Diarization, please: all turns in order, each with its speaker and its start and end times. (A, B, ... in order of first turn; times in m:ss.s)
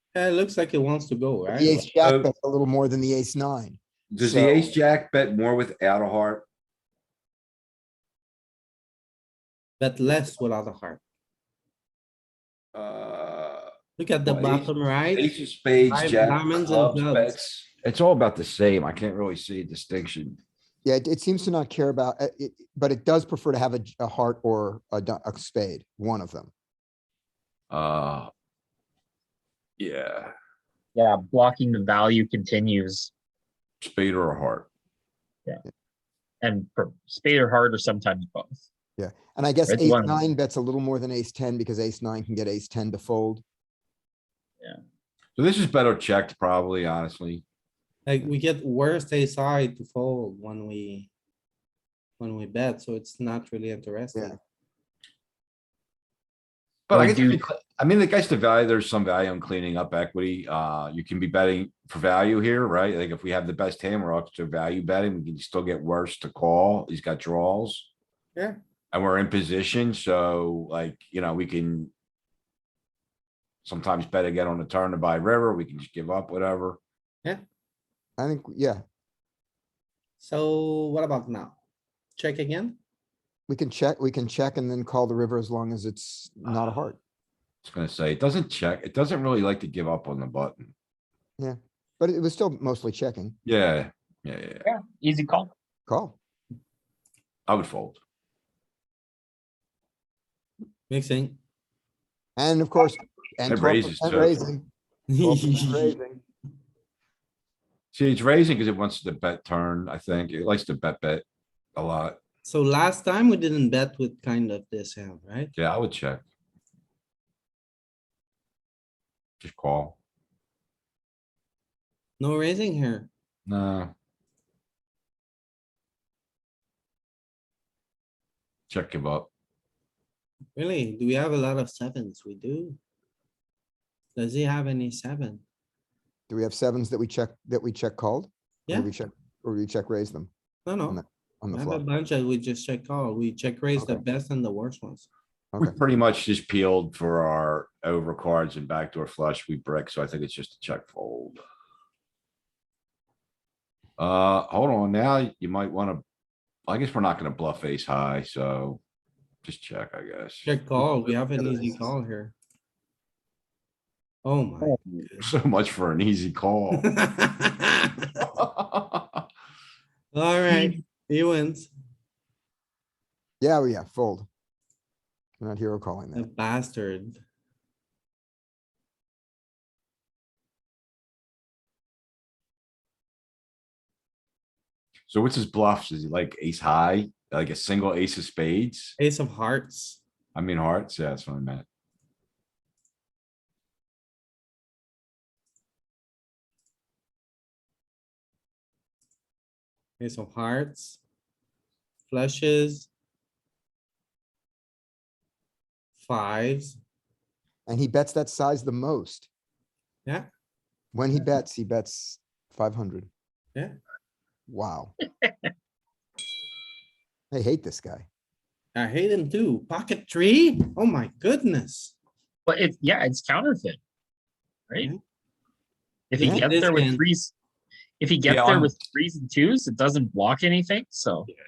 0:00.1-0:01.7 A
0:01.5-0:04.7 B
0:02.0-0:02.3 C
0:04.1-0:06.4 C
0:09.8-0:11.0 A
0:12.7-0:13.7 C
0:14.0-0:15.3 A
0:14.2-0:20.4 C
0:15.9-0:17.3 A
0:20.8-0:26.5 B
0:27.7-0:28.3 C
0:29.8-0:30.3 C
0:31.0-0:33.1 D
0:33.8-0:34.7 C
0:36.4-0:38.6 D
0:39.0-0:43.4 B
0:39.7-0:40.2 D
0:45.4-0:47.4 C
0:48.1-0:51.1 A
0:52.2-0:54.4 A
0:56.9-1:07.9 C
0:56.9-0:57.4 D
1:08.9-1:11.9 C
1:13.6-1:16.8 C
1:18.2-1:18.8 B
1:20.2-1:21.6 A
1:22.2-1:22.8 A
1:23.5-1:27.0 B
1:27.6-1:30.7 C
1:31.4-1:33.4 B
1:33.4-1:34.6 C
1:34.6-1:35.5 D
1:35.9-1:36.2 B
1:37.5-1:38.0 C
1:40.9-1:41.4 A
1:42.4-1:44.6 B
1:43.5-1:44.5 C
1:45.1-1:46.0 A
1:45.2-1:46.2 B
1:47.9-1:51.2 C
1:51.8-1:52.2 C
1:52.4-1:55.5 A
1:55.6-1:56.2 C
1:59.4-2:00.0 C
2:02.2-2:03.1 A
2:03.5-2:03.9 C
2:08.7-2:09.3 C
2:10.6-2:12.8 A
2:14.2-2:15.4 A
2:16.3-2:20.3 B
2:20.7-2:21.0 A
2:20.9-2:21.8 B
2:21.5-2:25.1 A
2:23.8-2:24.0 B
2:25.6-2:31.4 C
2:34.0-2:36.0 C
2:36.7-2:38.8 C
2:39.4-2:40.5 C
2:40.4-2:42.3 A
2:44.2-2:45.3 A
2:44.6-2:45.0 D
2:45.2-2:46.9 C
2:46.8-2:48.3 A
2:48.4-2:49.2 C
2:50.1-2:51.7 A
2:53.4-2:54.3 B
2:55.4-2:56.3 B
2:56.1-2:57.2 A
3:05.1-3:09.0 C
3:09.0-3:10.0 A
3:10.4-3:11.6 C
3:20.0-3:21.0 A
3:22.1-3:22.9 A
3:26.0-3:26.8 A
3:27.7-3:29.3 B
3:30.9-3:33.1 B
3:34.5-3:34.9 B
3:37.3-3:38.1 B
3:38.8-3:42.0 A
3:42.5-3:43.8 D
3:46.1-3:47.3 D
3:46.2-3:47.0 A
3:46.2-3:46.5 B
3:48.0-3:51.3 D
3:48.3-3:48.7 C